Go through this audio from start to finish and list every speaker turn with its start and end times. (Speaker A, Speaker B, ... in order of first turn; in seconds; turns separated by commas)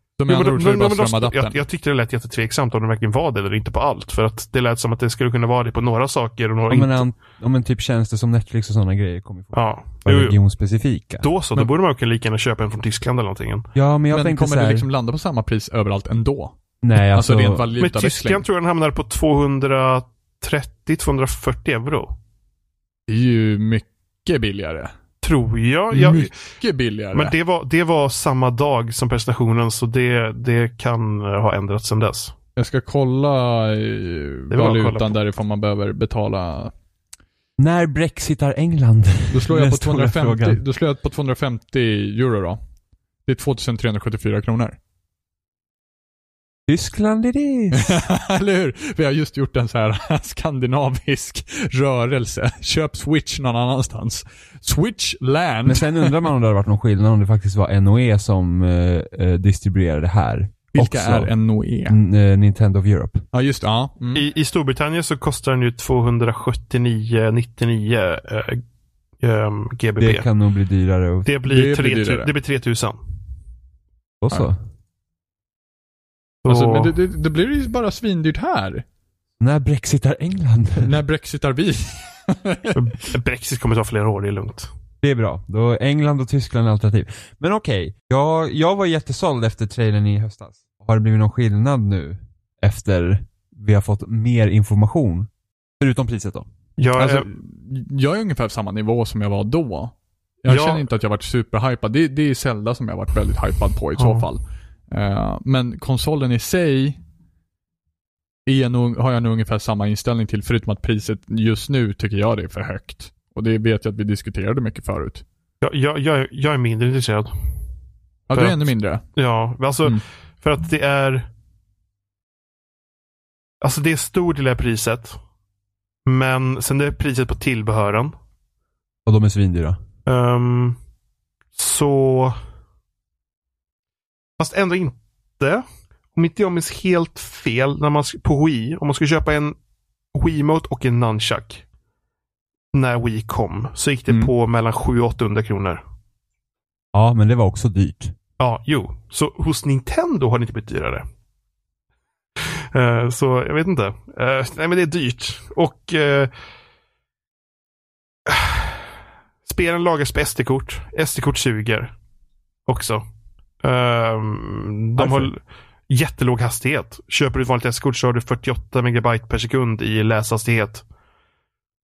Speaker A: 0.2-1.6, Speaker B: 0.3-7.1, Speaker C: 6.7-11.3, Speaker B: 9.5-10.4, Speaker B: 11.2-13.7, Speaker C: 13.8-14.9, Speaker A: 14.1-18.4, Speaker C: 16.8-17.7, Speaker B: 17.8-22.1, Speaker A: 23.1-24.9, Speaker B: 25.2-26.3, Speaker A: 25.9-27.4, Speaker B: 27.1-32.4, Speaker A: 32.6-36.7, Speaker B: 34.5-35.2, Speaker C: 37.6-40.6, Speaker A: 39.3-42.6, Speaker A: 43.2-44.8, Speaker C: 46.7-48.0, Speaker A: 47.8-56.2, Speaker C: 55.6-61.3, Speaker A: 60.7-62.0, Speaker C: 61.9-63.2, Speaker A: 63.3-64.2, Speaker B: 64.1-68.6, Speaker B: 69.2-70.3, Speaker C: 70.0-71.3, Speaker B: 71.2-73.0, Speaker A: 71.5-72.3, Speaker C: 74.2-74.6, Speaker B: 76.5-76.9, Speaker A: 76.5-78.8, Speaker C: 79.4-81.0, Speaker A: 80.8-82.8, Speaker B: 82.7-84.7, Speaker C: 85.0-95.3, Speaker C: 95.8-96.5, Speaker B: 96.8-97.3, Speaker A: 97.0-107.0, Speaker B: 100.5-100.8, Speaker B: 104.0-104.3, Speaker A: 108.5-115.2, Speaker B: 115.6-117.3, Speaker A: 118.3-119.0, Speaker B: 118.3-121.3, Speaker B: 123.6-125.2, Speaker B: 126.1-128.1, Speaker C: 129.1-129.8, Speaker B: 130.1-130.8, Speaker B: 131.6-132.4, Speaker B: 134.4-135.6, Speaker B: 136.2-139.6, Speaker B: 140.1-141.6, Speaker B: 142.7-145.8, Speaker C: 146.9-148.2, Speaker B: 148.4-151.0, Speaker B: 152.4-156.3, Speaker B: 158.3-161.9, Speaker B: 162.7-163.0, Speaker B: 163.6-170.8, Speaker A: 165.0-165.3